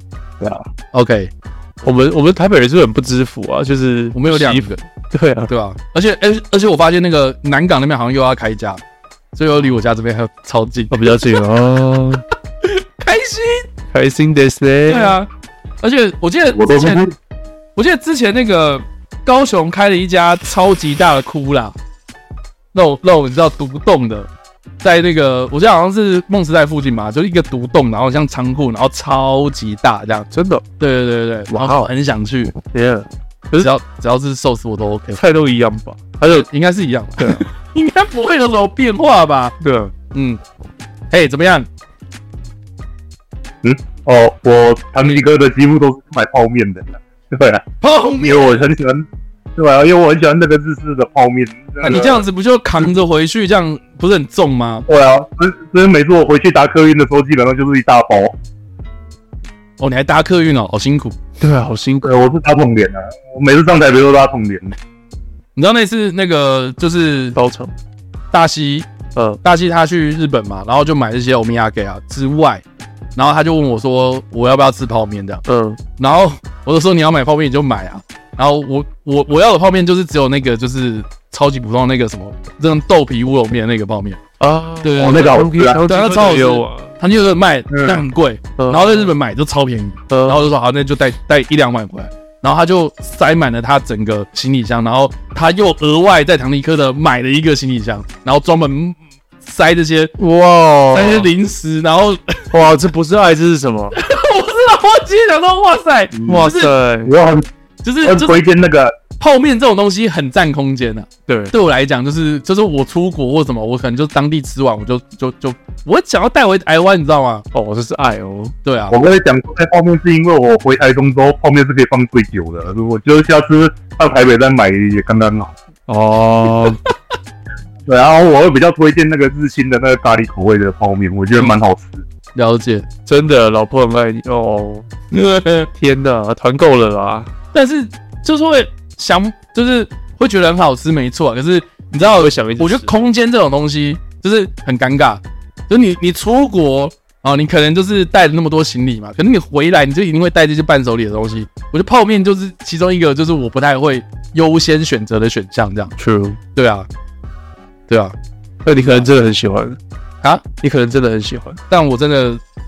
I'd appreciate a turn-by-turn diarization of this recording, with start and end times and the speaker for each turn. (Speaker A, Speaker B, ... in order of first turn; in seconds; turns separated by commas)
Speaker A: 0.9-1.3, Speaker B: 1.8-5.5, Speaker A: 4.1-4.8, Speaker A: 5.5-8.8, Speaker A: 9.3-11.1, Speaker B: 10.9-12.2, Speaker A: 12.6-13.7, Speaker B: 13.9-15.2, Speaker A: 14.9-15.3, Speaker A: 15.8-17.0, Speaker C: 16.5-17.1, Speaker A: 17.8-21.7, Speaker A: 22.7-24.3, Speaker A: 24.8-30.3, Speaker B: 30.3-30.6, Speaker A: 30.8-32.5, Speaker B: 31.5-31.9, Speaker B: 32.7-33.7, Speaker A: 33.6-35.2, Speaker B: 35.1-36.5, Speaker A: 36.3-39.5, Speaker B: 39.6-39.9, Speaker A: 40.1-40.4, Speaker A: 41.1-41.7, Speaker C: 43.6-47.6, Speaker A: 47.8-48.5, Speaker C: 48.2-52.2, Speaker A: 51.8-54.9, Speaker C: 54.9-58.3, Speaker A: 59.8-61.1, Speaker B: 61.4-62.1, Speaker C: 62.0-64.8, Speaker A: 65.5-67.4, Speaker B: 67.3-67.7, Speaker A: 68.3-68.9, Speaker B: 69.1-69.4, Speaker A: 69.4-72.6, Speaker A: 73.2-75.4, Speaker B: 75.5-75.8, Speaker A: 76.0-84.2, Speaker B: 84.4-86.9, Speaker A: 84.8-100.1, Speaker C: 85.0-85.8, Speaker C: 87.7-88.0, Speaker B: 88.6-89.1, Speaker B: 90.1-90.5, Speaker B: 100.2-101.3, Speaker A: 100.9-102.5, Speaker B: 102.5-103.9, Speaker A: 103.9-106.7, Speaker B: 106.2-107.1, Speaker C: 107.0-107.5, Speaker A: 107.8-108.4, Speaker C: 108.0-108.9, Speaker A: 109.2-117.4, Speaker B: 111.3-111.5, Speaker B: 117.5-118.5, Speaker A: 118.6-119.0, Speaker C: 118.9-125.5, Speaker B: 125.9-126.8, Speaker C: 127.8-132.0, Speaker A: 132.3-132.9, Speaker B: 133.1-134.8, Speaker A: 135.1-135.7, Speaker B: 135.8-137.3, Speaker A: 137.5-155.9, Speaker B: 142.1-142.9, Speaker B: 156.0-156.4, Speaker A: 156.5-156.9, Speaker A: 157.9-158.1, Speaker B: 158.6-159.8, Speaker A: 158.7-159.1, Speaker B: 160.6-161.6, Speaker A: 161.7-162.4